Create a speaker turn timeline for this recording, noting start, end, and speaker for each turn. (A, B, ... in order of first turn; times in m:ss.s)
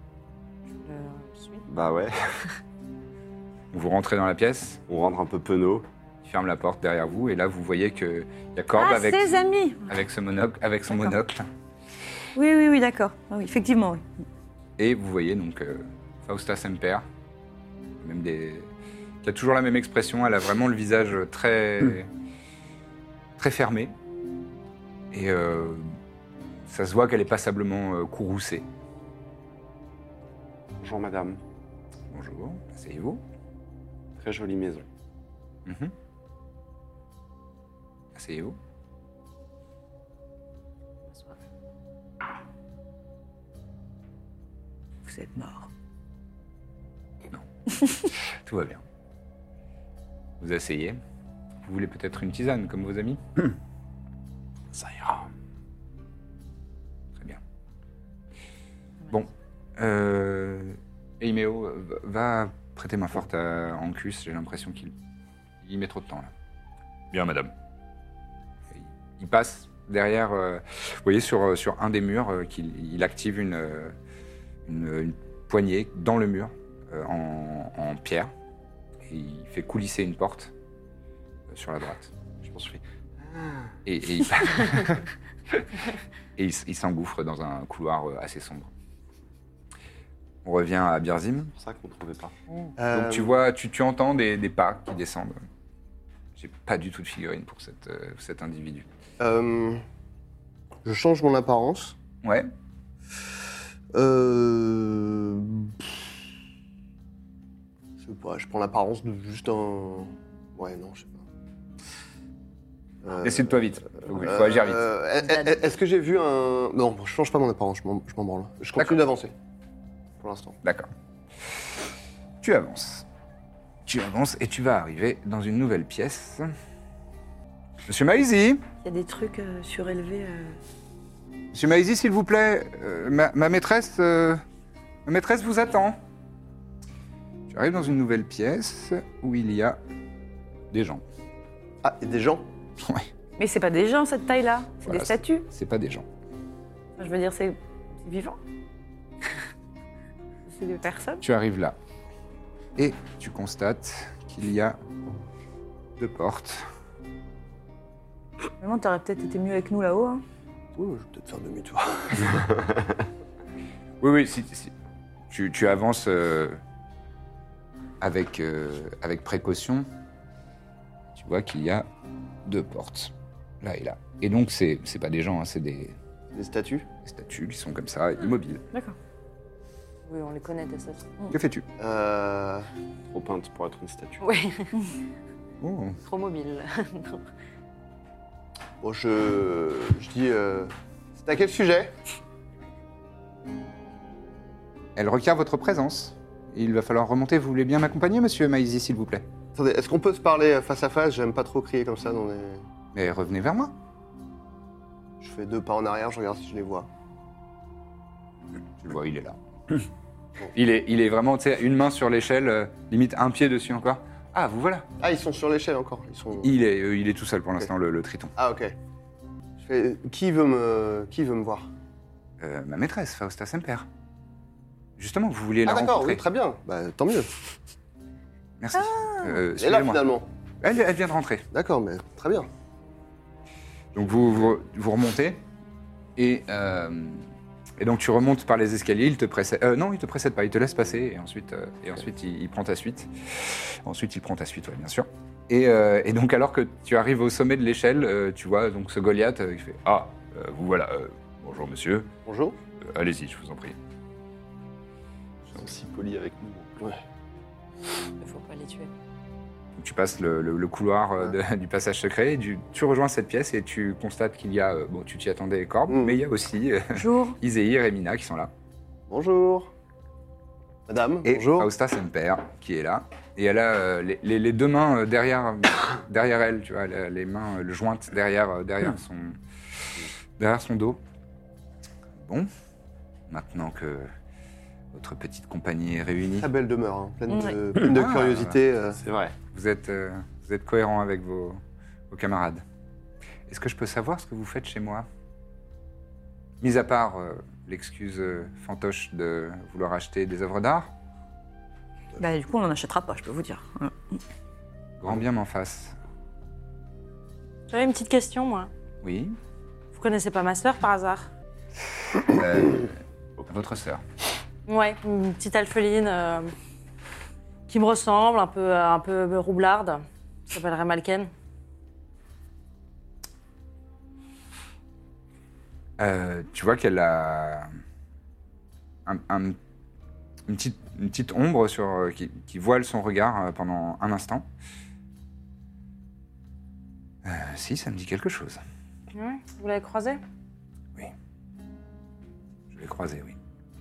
0:00.7-0:01.6 A
0:01.7-0:02.4 B
0:03.7-0:04.8 C
0:04.9-0:05.8 B
0:06.2-0:09.4 C
0:08.8-0:09.9 D
0:09.9-0:11.4 C
0:12.3-0:14.0 D
0:14.8-0:17.0 C
0:18.0-0:18.7 C
0:19.2-0:22.1 C
0:23.4-0:23.9 C
0:25.1-0:25.9 C
0:26.7-0:28.6 C
0:30.8-0:31.4 B
0:32.1-0:33.2 C
0:34.2-0:34.9 B
0:35.6-0:35.9 C
0:38.1-0:38.6 C
0:41.1-0:41.4 A
0:45.1-0:45.7 D
0:47.3-0:48.8 C
0:50.4-0:51.0 C
0:51.6-0:53.2 C
0:54.7-0:55.2 B
0:59.1-1:04.9 C
1:05.6-1:06.3 C
1:07.1-1:07.5 C
1:08.7-1:13.9 C
1:14.6-1:18.3 C
1:19.1-1:20.5 C
1:21.5-1:22.1 C
1:22.4-1:22.8 B
1:23.8-1:25.0 C
1:26.4-1:28.7 C
1:30.4-1:31.5 C
1:31.6-1:32.3 B
1:32.8-1:33.4 E
1:32.9-1:35.4 C
1:36.4-1:38.8 C
1:39.2-1:39.8 E
1:40.8-1:42.0 E
1:42.2-1:42.5 C
1:43.9-1:45.8 E
1:48.0-1:51.2 E
1:53.0-1:59.3 E
1:53.2-1:54.8 C
1:58.8-1:59.0 C
2:00.2-2:00.6 E
2:00.6-2:00.9 C
2:02.4-2:03.0 C
2:03.8-2:06.5 C
2:07.9-2:08.6 C
2:08.8-2:10.6 D
2:11.5-2:14.4 C
2:15.0-2:16.0 C
2:17.5-2:19.8 C
2:20.7-2:21.0 C
2:21.8-2:22.4 E
2:22.8-2:23.1 C
2:23.4-2:25.4 D
2:24.8-2:26.0 C
2:27.0-2:28.4 D
2:30.5-2:31.2 D
2:31.2-2:31.8 C
2:32.8-2:34.8 C
2:36.0-2:36.6 C
2:38.6-2:40.2 D
2:40.7-2:42.7 E
2:44.0-2:44.7 C
2:45.3-2:46.6 C
2:48.0-2:49.9 C
2:51.1-2:51.8 C
2:52.4-2:55.9 C
2:56.3-2:56.8 E
2:57.0-2:58.6 C
3:00.0-3:01.1 A
3:01.3-3:01.6 C
3:01.8-3:02.7 E
3:03.1-3:04.3 B
3:04.2-3:04.7 A
3:05.6-3:06.0 C
3:06.0-3:07.2 A
3:08.8-3:11.9 E
3:15.0-3:19.2 C
3:19.5-3:22.6 E
3:22.9-3:23.7 C
3:25.2-3:26.9 E
3:28.8-3:29.8 C
3:30.5-3:34.9 C
3:35.0-3:36.5 E
3:36.4-3:38.3 C
3:38.4-3:38.7 E
3:39.6-3:41.7 E
3:42.4-3:43.9 C
3:45.0-3:46.2 C
3:45.6-3:47.3 E
3:48.6-3:50.0 C
3:48.9-3:49.2 D
3:49.6-3:50.2 E
3:50.6-3:51.4 C
3:51.5-3:52.5 E
3:53.9-3:55.4 C
3:56.2-3:57.2 C
3:57.8-4:12.1 C
4:12.2-4:12.6 E
4:12.8-4:13.8 C
4:15.5-4:16.9 B
4:18.2-4:18.9 A
4:19.8-4:28.5 C
4:25.9-4:26.2 E
4:26.9-4:27.4 D
4:29.1-4:29.7 E
4:30.9-4:31.7 E
4:31.2-4:39.4 C
4:40.4-4:41.0 C
4:42.2-4:42.5 C
4:43.3-4:44.1 C
4:44.9-4:46.5 C
4:46.4-4:49.0 E
4:47.3-4:47.6 D
4:47.8-4:48.6 C
4:49.0-4:49.4 B
4:49.5-4:52.6 C
4:53.5-4:55.0 C
4:56.6-5:00.9 C
5:02.2-5:04.2 D
5:05.0-5:06.0 C
5:07.7-5:08.7 A
5:09.0-5:09.4 C
5:09.9-5:11.3 A
5:12.2-5:14.0 C
5:14.7-5:16.5 A
5:17.7-5:21.3 A
5:26.0-5:27.7 C
5:29.0-5:29.6 C
5:30.5-5:34.4 C
5:37.2-5:38.6 C
5:39.1-5:40.2 A
5:42.7-5:43.4 C